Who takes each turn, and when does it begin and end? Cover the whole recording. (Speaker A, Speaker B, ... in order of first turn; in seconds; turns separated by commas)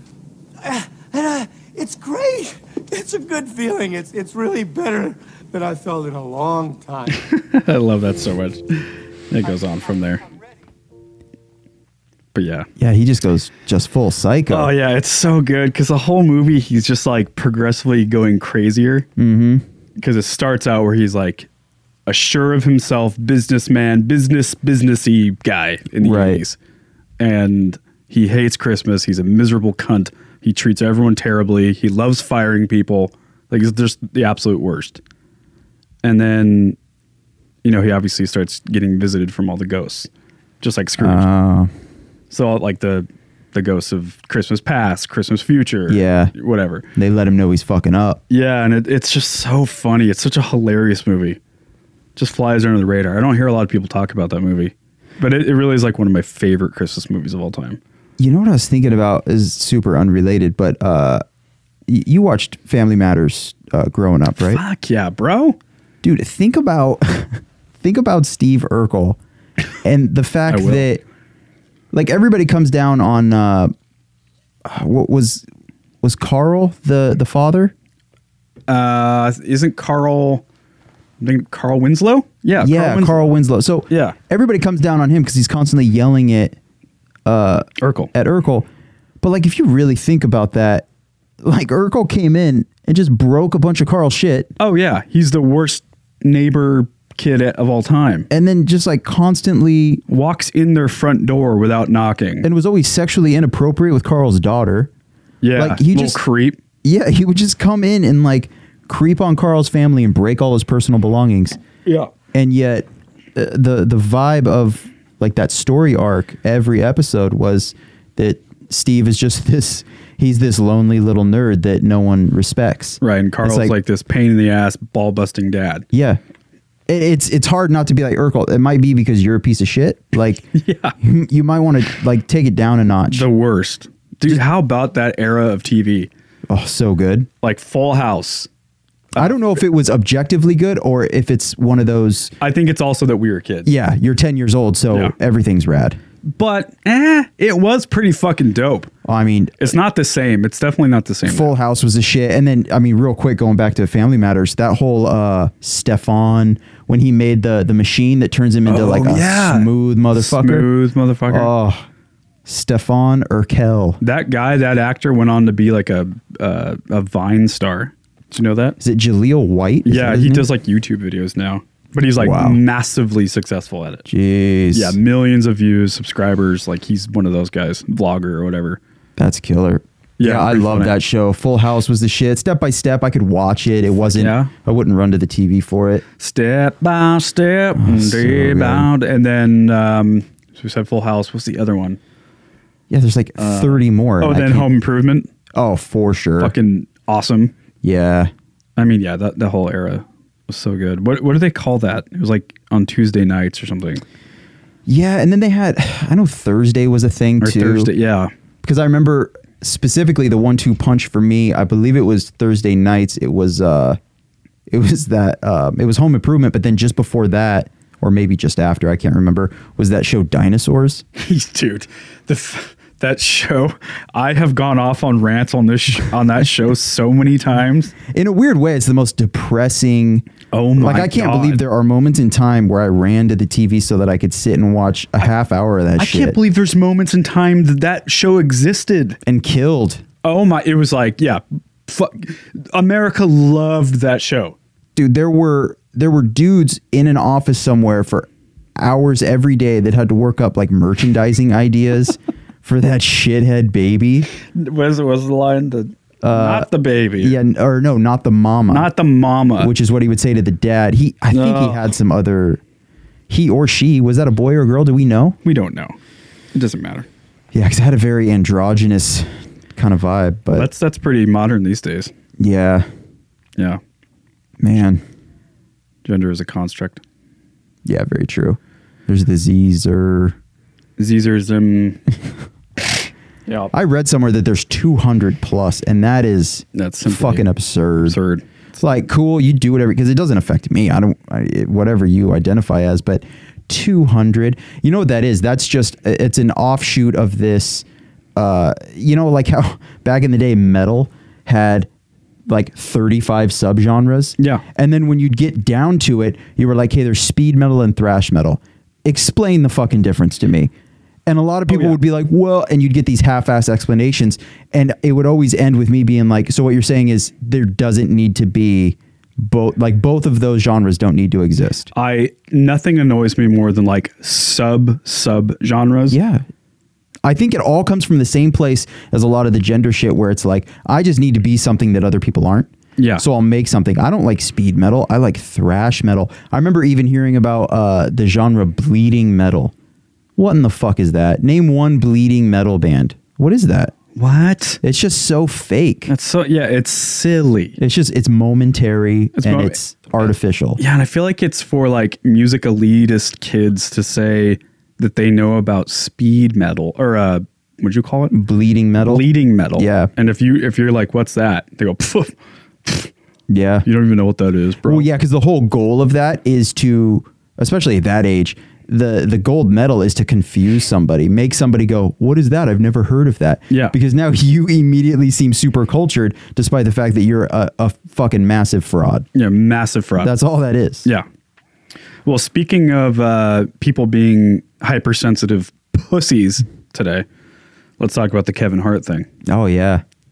Speaker A: 0.6-7.2, Speaker B: 7.2-10.2, Speaker A: 9.7-10.3, Speaker B: 12.3-12.7, Speaker C: 12.8-14.7, Speaker B: 14.5-19.1, Speaker C: 19.2-19.6, Speaker B: 20.0-21.5, Speaker B: 22.1-26.6, Speaker C: 26.0-26.4, Speaker B: 27.2-35.0, Speaker B: 36.0-36.8, Speaker B: 37.6-40.1, Speaker B: 40.6-41.3, Speaker C: 41.0-41.7, Speaker B: 42.3-46.9, Speaker C: 45.9-46.3, Speaker C: 46.9-48.2, Speaker B: 48.3-51.4, Speaker B: 52.1-57.8, Speaker C: 58.2-61.2, Speaker C: 61.9-64.6, Speaker B: 64.4-65.6, Speaker C: 66.0-69.2, Speaker C: 69.8-71.0, Speaker B: 70.5-70.9, Speaker C: 71.9-73.7, Speaker C: 74.6-75.5, Speaker C: 76.0-77.7, Speaker B: 78.7-80.4, Speaker B: 81.2-83.3, Speaker C: 82.6-86.6, Speaker B: 83.9-84.2, Speaker C: 87.2-88.7, Speaker B: 87.8-88.1, Speaker C: 89.2-90.8, Speaker C: 91.4-94.5, Speaker B: 94.6-98.3, Speaker C: 98.3-100.0, Speaker B: 100.1-102.5, Speaker C: 102.4-104.9, Speaker B: 105.4-106.6, Speaker C: 105.5-106.2, Speaker C: 106.8-111.6, Speaker B: 111.8-112.1, Speaker C: 112.3-123.7, Speaker B: 123.0-125.9, Speaker C: 125.9-126.2, Speaker C: 126.9-130.4, Speaker B: 130.5-130.9, Speaker C: 131.0-133.3, Speaker B: 133.1-136.1, Speaker C: 136.5-137.3, Speaker B: 137.4-138.5, Speaker C: 139.2-142.3, Speaker B: 142.4-143.7, Speaker C: 143.7-146.0, Speaker B: 146.3-148.9, Speaker C: 149.0-149.7, Speaker B: 149.6-151.5, Speaker C: 151.2-160.7, Speaker B: 158.7-161.5, Speaker C: 161.3-161.8, Speaker C: 162.4-164.0, Speaker B: 164.0-168.8, Speaker C: 168.8-170.5, Speaker B: 169.8-174.1, Speaker C: 172.2-172.6, Speaker C: 174.1-174.9, Speaker B: 174.7-178.8, Speaker C: 179.2-186.0, Speaker B: 180.2-180.9, Speaker B: 184.1-184.5, Speaker B: 186.2-192.0, Speaker C: 187.8-188.9, Speaker C: 192.9-194.7, Speaker B: 193.4-195.3, Speaker C: 195.5-196.5, Speaker B: 196.4-197.5, Speaker C: 197.8-198.3, Speaker B: 198.8-204.0, Speaker C: 204.9-207.9, Speaker B: 207.4-208.3, Speaker C: 208.6-214.0, Speaker C: 214.7-221.0, Speaker B: 221.2-227.9, Speaker C: 228.1-230.2, Speaker B: 230.5-231.6, Speaker C: 230.8-236.3, Speaker B: 236.0-239.2, Speaker C: 239.2-240.0, Speaker B: 240.2-244.6, Speaker C: 244.9-254.3, Speaker B: 254.5-257.4, Speaker C: 256.2-258.9, Speaker B: 258.7-259.7, Speaker C: 259.6-262.6, Speaker B: 261.3-261.9, Speaker C: 263.3-265.4, Speaker B: 265.4-265.9, Speaker B: 266.5-267.1, Speaker C: 267.5-270.7, Speaker B: 270.5-272.1, Speaker C: 272.4-272.9, Speaker C: 274.6-275.0, Speaker B: 276.0-277.0, Speaker C: 277.8-280.4, Speaker B: 281.0-282.1, Speaker B: 283.5-283.7, Speaker C: 283.7-288.2, Speaker B: 286.7-287.5, Speaker B: 288.0-288.4, Speaker C: 288.8-297.8, Speaker C: 298.4-301.9, Speaker C: 302.5-310.7, Speaker C: 311.2-321.9, Speaker B: 311.7-312.0, Speaker B: 321.9-326.2, Speaker C: 326.1-326.4, Speaker C: 327.2-339.7, Speaker B: 333.0-333.2, Speaker C: 340.4-343.9, Speaker B: 344.1-344.8, Speaker C: 344.8-346.1, Speaker B: 346.1-347.8, Speaker C: 347.8-350.8, Speaker B: 349.4-349.8, Speaker B: 350.8-358.4, Speaker C: 358.3-359.2, Speaker B: 359.0-362.3, Speaker C: 359.8-360.1, Speaker B: 362.8-363.1, Speaker C: 363.5-363.9, Speaker B: 363.8-365.1, Speaker C: 364.9-379.2, Speaker B: 373.7-373.9, Speaker B: 379.3-380.3, Speaker C: 380.2-381.1, Speaker B: 382.2-387.2, Speaker B: 388.0-389.3, Speaker C: 389.4-390.0